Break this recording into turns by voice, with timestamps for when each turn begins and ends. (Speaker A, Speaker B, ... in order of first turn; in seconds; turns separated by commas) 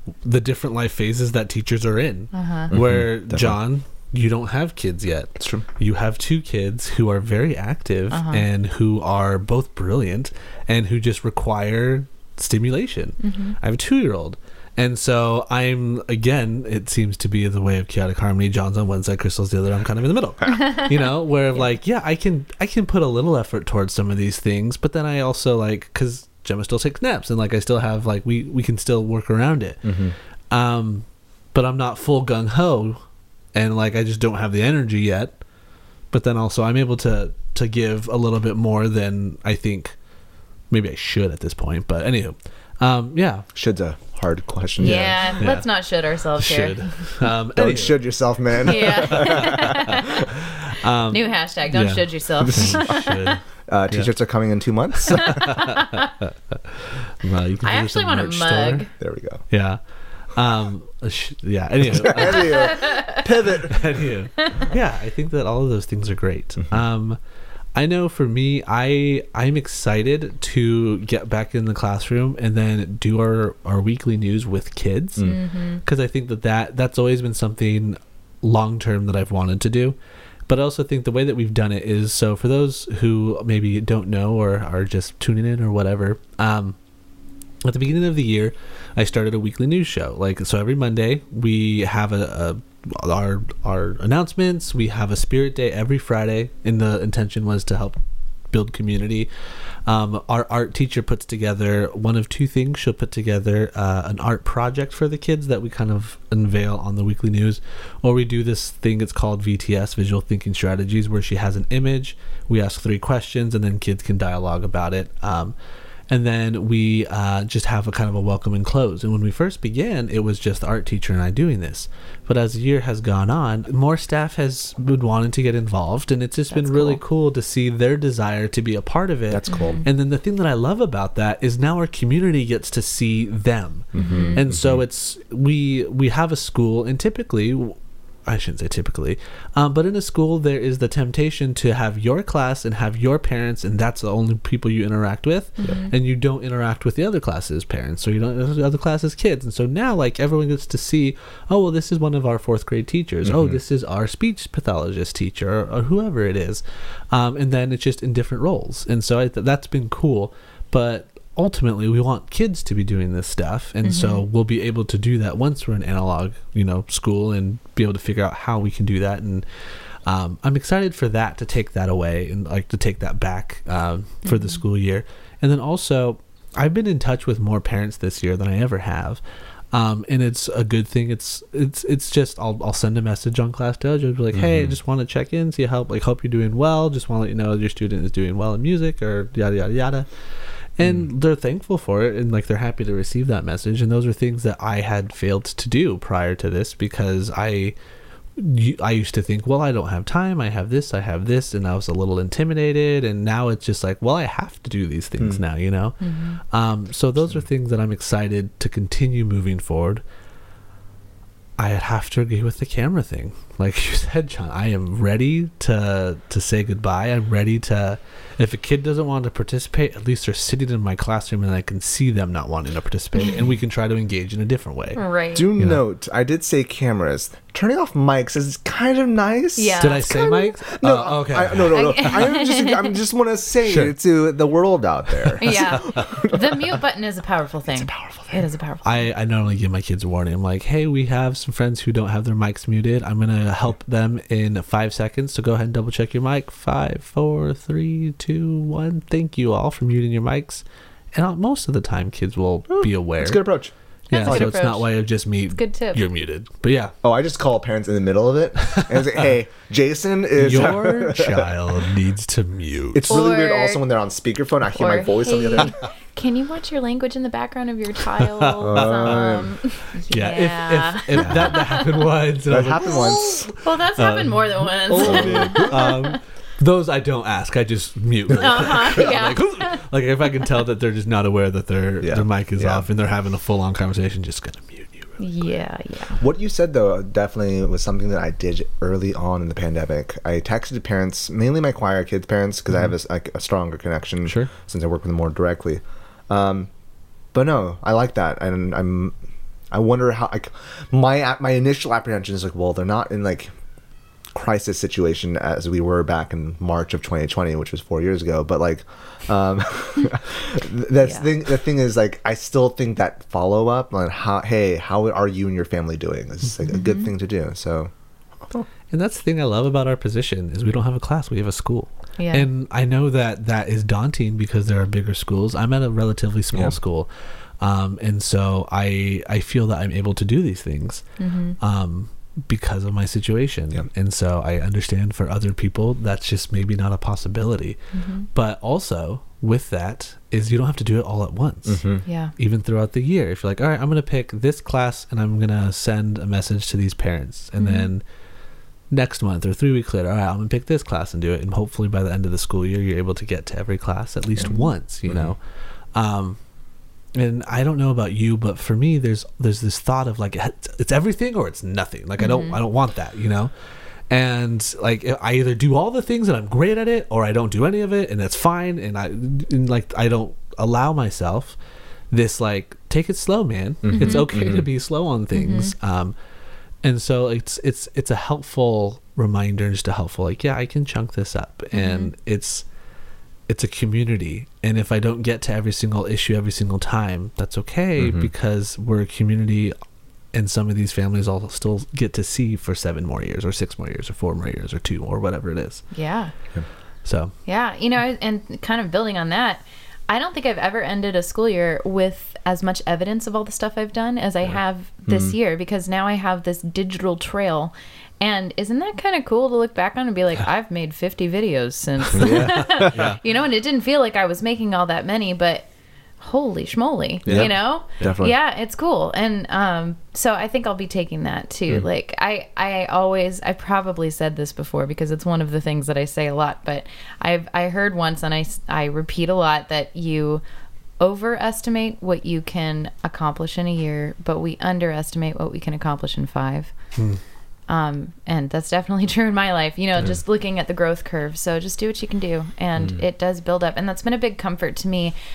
Speaker A: 0.2-30.0, Speaker B: 2.3-2.7, Speaker C: 2.7-3.6, Speaker C: 5.4-5.7, Speaker B: 8.1-8.4, Speaker B: 13.2-13.6, Speaker C: 29.8-30.1, Speaker A: 30.5-33.0, Speaker A: 33.5-35.4, Speaker A: 36.1-40.0, Speaker A: 40.7-43.5, Speaker C: 43.5-45.4, Speaker A: 44.8-45.8, Speaker B: 44.8-47.2, Speaker A: 46.4-48.0, Speaker C: 47.6-50.2, Speaker B: 48.6-50.2, Speaker A: 48.7-50.0, Speaker A: 50.6-54.1, Speaker B: 51.1-53.3, Speaker C: 52.4-53.1, Speaker C: 53.7-55.7, Speaker B: 55.1-56.1, Speaker A: 55.4-58.9, Speaker B: 57.6-58.9, Speaker C: 59.0-59.4, Speaker A: 59.5-62.8, Speaker C: 61.9-64.0, Speaker B: 62.5-63.0, Speaker A: 63.7-67.2, Speaker B: 64.4-64.7, Speaker A: 67.8-80.0, Speaker B: 75.2-75.8, Speaker A: 80.5-86.8, Speaker A: 87.6-98.0, Speaker A: 98.5-99.3, Speaker A: 99.8-115.5, Speaker A: 116.1-179.2, Speaker B: 126.5-127.0, Speaker C: 129.3-129.8, Speaker B: 129.5-129.8, Speaker C: 133.9-134.8, Speaker B: 134.0-134.5, Speaker B: 145.6-145.9, Speaker C: 145.6-145.9, Speaker C: 153.2-153.6, Speaker B: 163.8-164.2, Speaker B: 174.2-174.6, Speaker A: 179.7-197.8, Speaker C: 184.3-184.8, Speaker A: 198.4-210.0, Speaker B: 206.0-206.4, Speaker A: 211.6-225.0, Speaker B: 224.9-225.5, Speaker C: 225.3-230.0, Speaker B: 229.6-230.6, Speaker A: 229.8-232.1, Speaker C: 230.7-236.7, Speaker B: 231.7-233.0, Speaker A: 233.7-233.9, Speaker A: 235.2-236.1, Speaker B: 235.4-239.1, Speaker C: 237.7-238.4, Speaker A: 238.8-253.4, Speaker C: 252.7-253.7, Speaker B: 254.1-256.0, Speaker A: 254.1-256.9, Speaker C: 254.2-254.5, Speaker C: 257.0-261.6, Speaker A: 258.7-259.0, Speaker A: 260.4-263.1, Speaker C: 262.9-265.8, Speaker B: 263.1-263.8, Speaker B: 264.8-272.0, Speaker A: 268.2-269.2, Speaker C: 268.6-269.6, Speaker A: 269.9-285.2, Speaker C: 272.5-273.5, Speaker B: 273.5-276.2, Speaker C: 275.0-275.8, Speaker B: 278.3-279.8, Speaker C: 282.0-282.9, Speaker B: 285.2-286.2, Speaker C: 286.2-296.7, Speaker C: 297.3-299.1, Speaker C: 299.7-303.5, Speaker C: 304.3-317.9, Speaker B: 316.7-317.1, Speaker A: 318.9-331.1, Speaker B: 322.2-322.5, Speaker B: 331.2-331.6, Speaker A: 331.6-337.8, Speaker B: 337.9-338.3, Speaker A: 338.3-341.9, Speaker C: 341.7-342.0, Speaker B: 342.1-342.3, Speaker A: 342.4-348.0, Speaker B: 347.6-347.9, Speaker A: 348.9-356.4, Speaker B: 354.4-354.7, Speaker C: 355.1-355.4, Speaker A: 357.1-363.5, Speaker B: 362.2-362.6, Speaker A: 364.1-371.6, Speaker A: 372.1-376.2, Speaker C: 373.8-374.7, Speaker B: 373.9-374.5, Speaker B: 375.3-375.7, Speaker A: 376.8-382.7, Speaker B: 381.7-382.1, Speaker A: 383.5-389.8, Speaker C: 388.0-388.3, Speaker A: 390.3-395.9, Speaker B: 395.9-396.3, Speaker A: 397.1-397.3, Speaker B: 397.5-415.7, Speaker C: 405.1-405.4, Speaker C: 412.2-413.0, Speaker A: 412.2-413.2, Speaker B: 416.2-430.4, Speaker A: 417.3-418.2, Speaker C: 417.3-418.4, Speaker B: 431.0-436.7, Speaker A: 436.9-437.2, Speaker B: 437.7-445.1